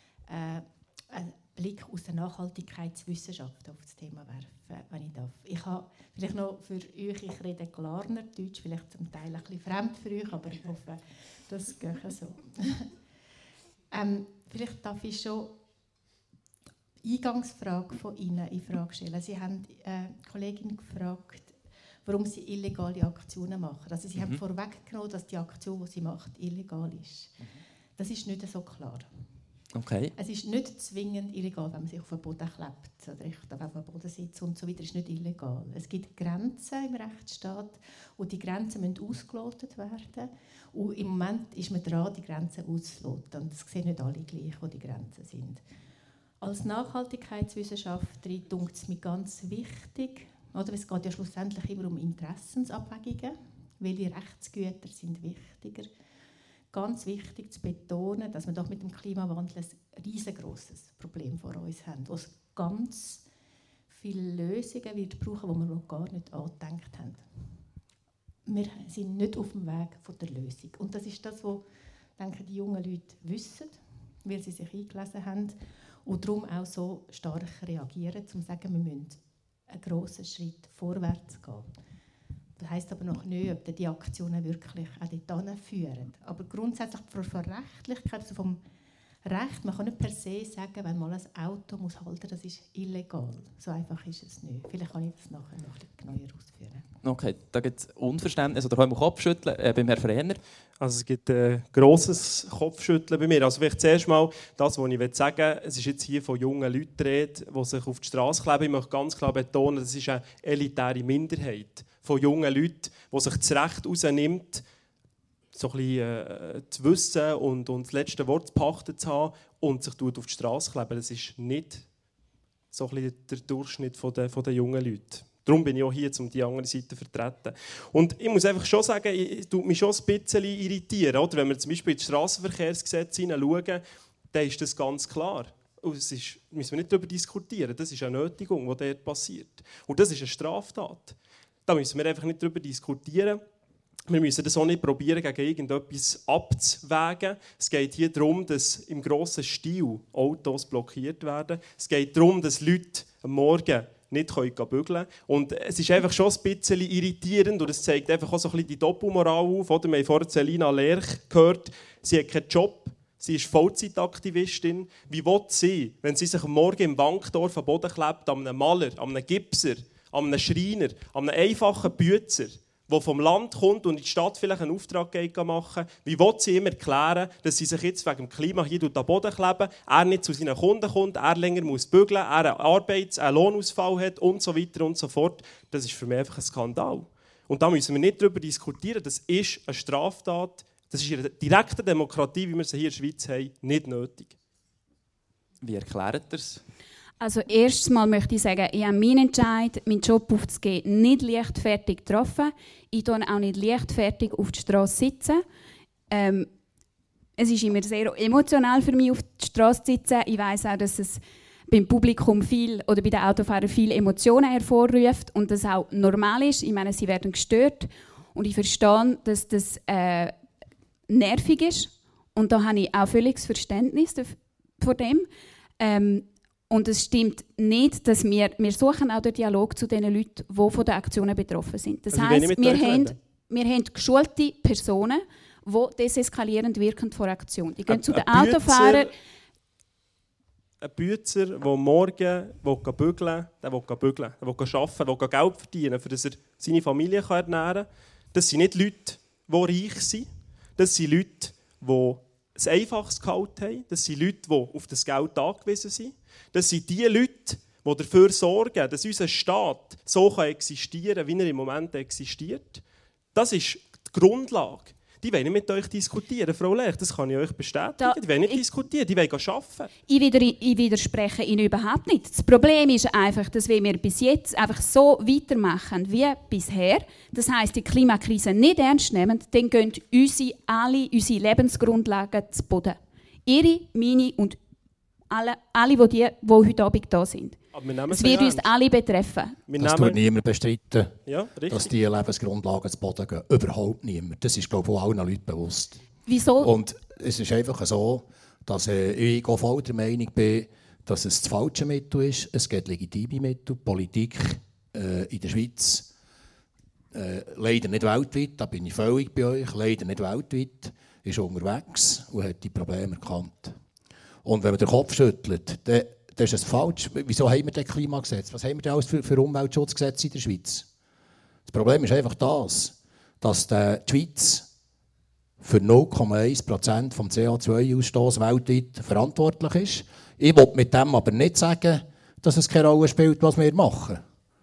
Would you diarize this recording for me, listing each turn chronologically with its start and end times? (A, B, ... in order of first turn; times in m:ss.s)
0:00.3-0:12.9 A
0:13.9-0:15.6 A
0:17.0-0:21.5 A
0:22.0-0:27.4 A
0:28.0-0:29.1 A
0:29.7-0:30.1 B
0:30.2-0:45.6 A
0:46.4-0:55.9 A
0:56.7-1:03.2 A
1:03.9-1:07.2 A
1:08.5-1:11.6 A
1:12.2-1:21.7 A
1:22.6-1:28.6 A
1:29.3-1:36.8 A
1:37.0-1:40.4 B
1:40.8-1:54.6 C
1:55.5-2:01.8 C
2:02.7-2:23.4 C
2:24.1-3:14.4 C
3:15.6-3:16.6 B
3:17.2-3:25.4 D
3:26.1-3:26.5 D
3:27.4-3:40.3 D
3:41.1-3:45.3 D
3:45.8-3:59.1 D
3:52.1-3:53.2 C
3:57.9-3:59.1 C
4:00.8-4:22.8 C
4:23.3-4:29.9 C
4:28.0-4:28.6 D
4:30.1-4:44.6 D
4:45.3-4:49.6 D
4:47.7-4:48.7 C
4:49.7-4:50.2 C
4:49.8-4:51.2 E
4:51.3-4:51.9 C
4:51.7-4:56.0 E
4:56.3-4:56.7 D
4:56.6-5:06.1 E
5:07.1-5:13.8 E
5:14.4-5:20.9 E
5:21.7-5:24.7 E
5:25.6-5:34.2 E